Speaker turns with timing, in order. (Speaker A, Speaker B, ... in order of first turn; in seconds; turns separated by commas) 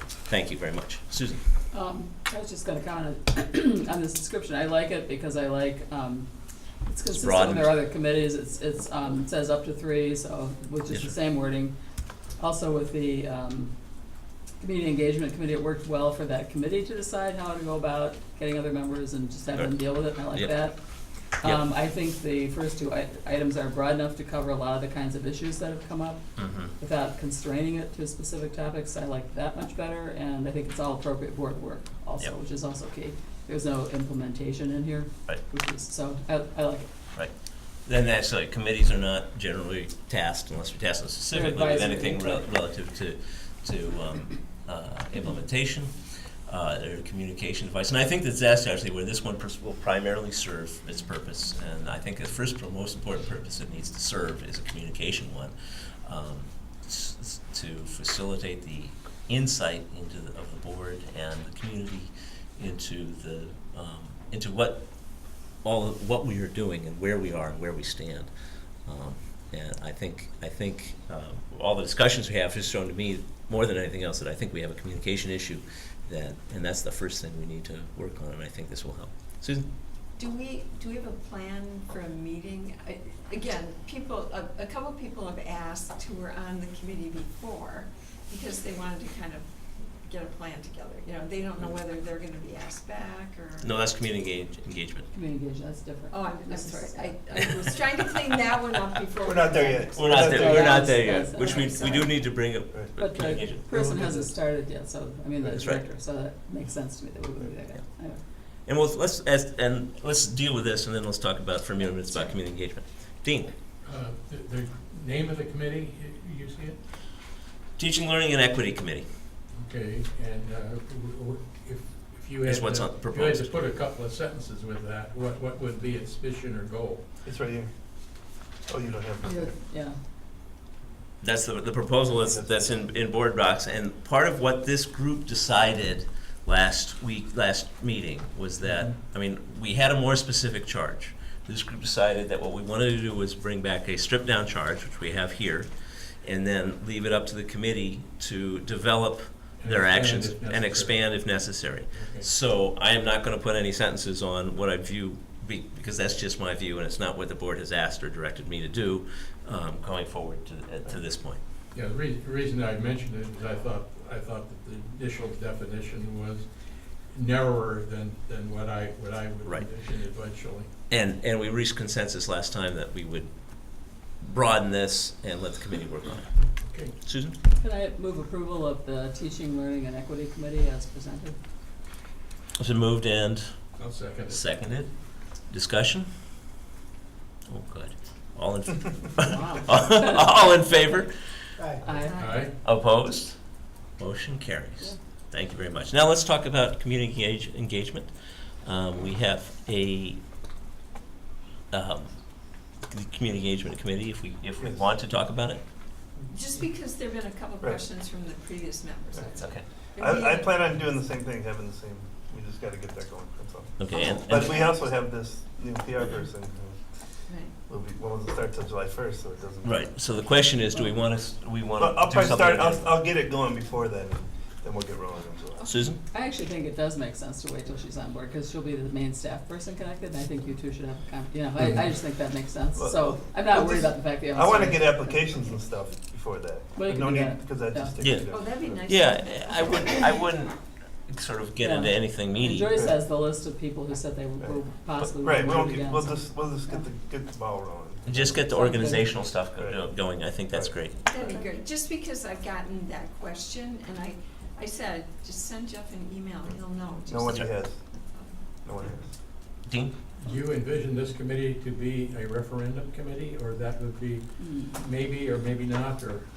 Speaker A: 0.2-1.4, Speaker B: 1.7-6.3, Speaker B: 6.8-11.7, Speaker A: 7.1-7.7, Speaker A: 10.9-11.1, Speaker B: 12.4-13.7, Speaker B: 14.6-20.8, Speaker B: 21.4-26.2, Speaker A: 26.4-26.7, Speaker B: 26.8-36.9, Speaker A: 37.1-64.9, Speaker B: 41.3-42.5, Speaker A: 65.6-68.3, Speaker A: 68.8-79.7, Speaker C: 80.2-93.7, Speaker A: 93.6-95.1, Speaker B: 95.1-97.1, Speaker C: 96.1-102.2, Speaker D: 99.2-101.0, Speaker A: 99.9-103.6, Speaker B: 100.3-101.8, Speaker B: 103.0-108.2, Speaker E: 103.8-104.2, Speaker A: 105.4-105.8, Speaker A: 108.7-113.5, Speaker E: 113.8-116.8, Speaker A: 117.8-119.1, Speaker E: 119.5-127.0, Speaker A: 122.5-123.5, Speaker D: 127.2-127.7, Speaker D: 128.7-129.5, Speaker B: 129.2-130.0, Speaker A: 131.2-145.7, Speaker D: 132.2-132.8, Speaker A: 146.2-161.4, Speaker E: 149.6-151.1, Speaker E: 151.8-152.3, Speaker E: 161.7-170.7, Speaker A: 170.9-176.4, Speaker E: 176.6-176.9, Speaker A: 177.0-177.4, Speaker B: 177.6-181.4, Speaker A: 182.6-183.5, Speaker E: 183.8-184.4, Speaker A: 184.3-186.1, Speaker A: 187.5-191.5, Speaker B: 189.2-190.2, Speaker B: 191.8-192.2, Speaker C: 191.9-192.5, Speaker E: 192.1-192.5, Speaker A: 192.6-193.4, Speaker A: 193.9-198.1, Speaker A: 198.6-200.2, Speaker A: 201.7-202.1, Speaker A: 202.9-205.6, Speaker C: 206.3-210.6, Speaker A: 209.4-209.6, Speaker D: 210.0-217.0, Speaker A: 213.8-214.6, Speaker C: 214.3-214.6, Speaker C: 217.3-217.5, Speaker D: 217.7-219.8, Speaker A: 219.6-223.0, Speaker D: 221.8-225.7, Speaker A: 225.7-226.0, Speaker B: 226.1-235.2, Speaker D: 232.7-238.9, Speaker B: 236.8-237.9, Speaker A: 238.0-238.3, Speaker C: 238.3-240.2, Speaker A: 238.8-242.8, Speaker B: 241.6-246.2, Speaker D: 242.7-243.0, Speaker D: 244.4-248.8, Speaker A: 248.1-251.0, Speaker B: 248.5-249.1, Speaker D: 249.5-249.9, Speaker D: 250.5-251.5, Speaker C: 251.1-258.4, Speaker D: 257.1-257.8, Speaker D: 258.6-259.1, Speaker A: 259.6-259.9, Speaker E: 260.2-266.2, Speaker B: 264.4-264.7